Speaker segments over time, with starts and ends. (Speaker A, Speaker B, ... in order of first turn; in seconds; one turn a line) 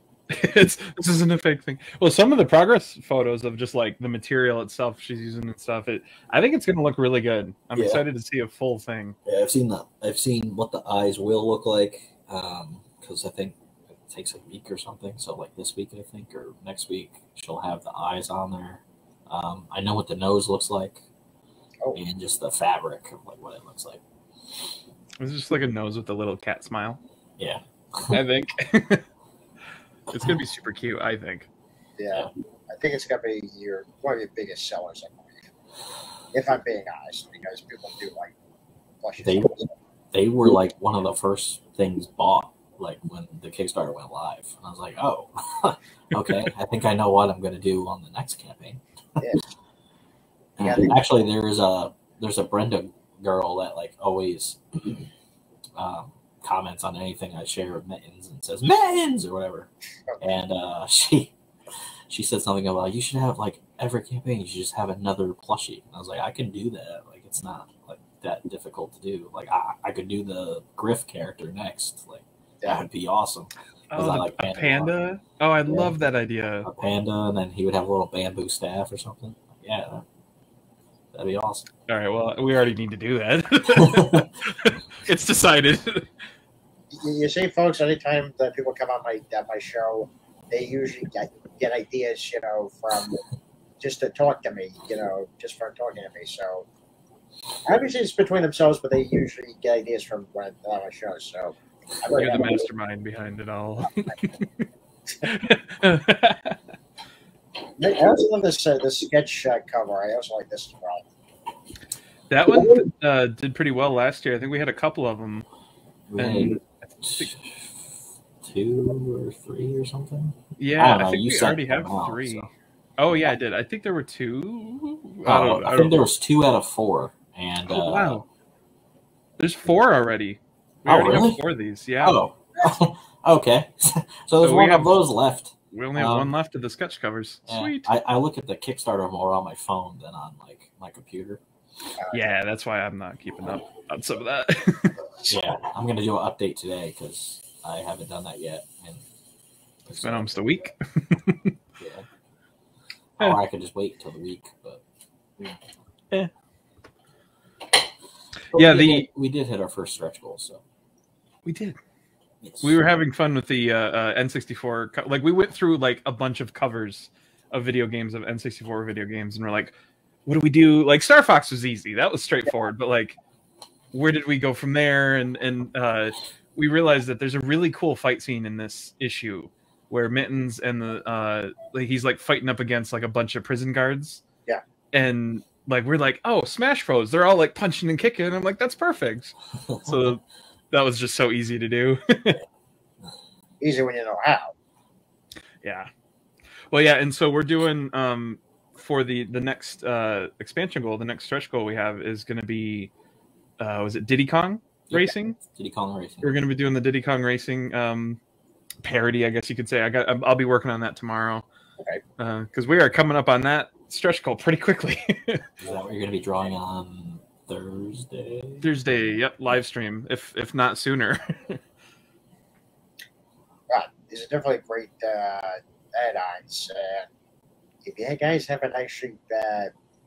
Speaker A: 0.3-9.2
Speaker B: 7.8-8.0
Speaker B: 9.2-21.0
Speaker B: 21.9-24.0
Speaker A: 25.2-27.0
Speaker B: 27.4-28.2
Speaker A: 28.1-29.1
Speaker A: 30.1-31.5
Speaker C: 32.0-35.4
Speaker C: 36.3-38.3
Speaker C: 39.0-39.7
Speaker B: 39.2-39.5
Speaker B: 40.1-48.8
Speaker B: 50.6-55.1
Speaker C: 50.6-50.9
Speaker B: 55.8-61.4
Speaker B: 62.1-74.9
Speaker A: 73.9-76.7
Speaker B: 75.7-75.9
Speaker B: 76.6-80.0
Speaker B: 81.1-81.7
Speaker A: 81.9-86.1
Speaker B: 83.8-84.3
Speaker C: 86.9-93.2
Speaker C: 93.8-96.7
Speaker C: 97.7-102.7
Speaker A: 102.2-104.7
Speaker A: 105.2-106.6
Speaker C: 107.8-111.0
Speaker A: 112.3-115.5
Speaker B: 116.1-122.5
Speaker A: 116.2-117.3
Speaker A: 120.6-122.5
Speaker A: 123.0-126.0
Speaker B: 125.2-128.2
Speaker A: 127.7-128.3
Speaker A: 129.4-132.2
Speaker B: 130.9-131.4
Speaker B: 132.0-136.3
Speaker A: 134.4-135.0
Speaker A: 135.7-137.9
Speaker B: 137.5-141.4
Speaker A: 142.1-144.9
Speaker B: 145.2-149.1
Speaker B: 149.9-150.7
Speaker A: 150.0-151.5
Speaker B: 151.8-152.1
Speaker B: 153.2-154.8
Speaker B: 158.5-160.6
Speaker A: 158.5-159.1
Speaker A: 161.4-161.8
Speaker B: 162.4-162.8
Speaker A: 162.6-169.7
Speaker A: 170.3-173.2
Speaker A: 173.9-184.2
Speaker A: 184.9-192.4
Speaker C: 193.6-194.5
Speaker A: 195.6-195.9
Speaker A: 196.7-202.9
Speaker A: 203.6-205.4
Speaker B: 204.9-206.4
Speaker A: 206.2-208.2
Speaker A: 208.8-211.4
Speaker A: 212.2-215.4
Speaker B: 215.6-218.7
Speaker A: 218.6-221.6
Speaker C: 223.7-227.1
Speaker C: 227.8-229.7